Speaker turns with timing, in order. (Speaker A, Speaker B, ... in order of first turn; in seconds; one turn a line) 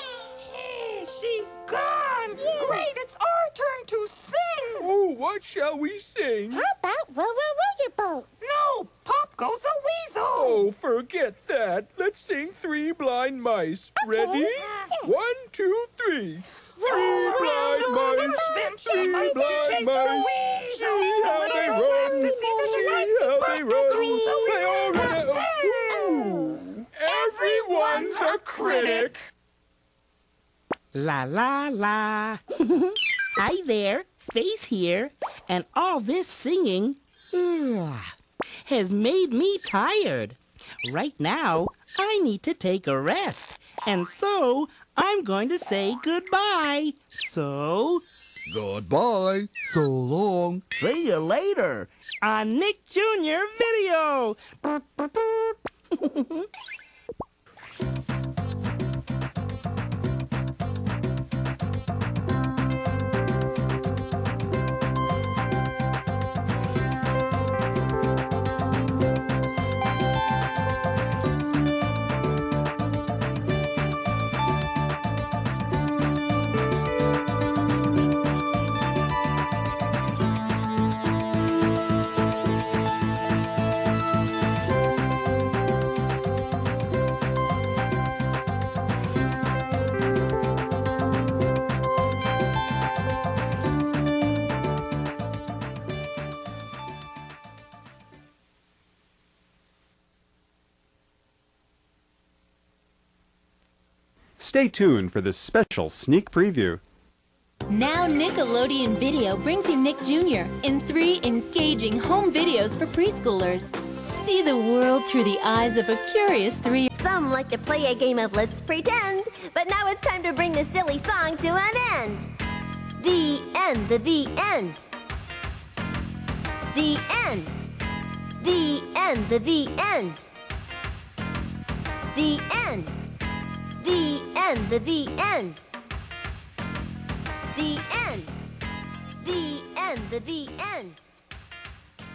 Speaker A: 0.5-4.8
Speaker B: 4.8-6.6
Speaker C: 7.7-8.0
Speaker A: 8.4-10.6
Speaker B: 10.4-29.2
Speaker A: 16.8-25.7
Speaker A: 27.1-29.1
Speaker D: 30.9-32.4
Speaker D: 33.4-38.1
Speaker D: 38.6-48.0
Speaker E: 48.5-51.9
Speaker D: 52.2-55.5
Speaker F: 104.4-106.8
Speaker G: 107.7-116.9
Speaker C: 117.0-122.3
Speaker C: 123.0-124.8
Speaker C: 126.7-127.5
Speaker C: 128.4-130.3
Speaker C: 132.1-133.0
Speaker C: 133.8-135.6
Speaker C: 137.5-138.4
Speaker C: 139.2-141.0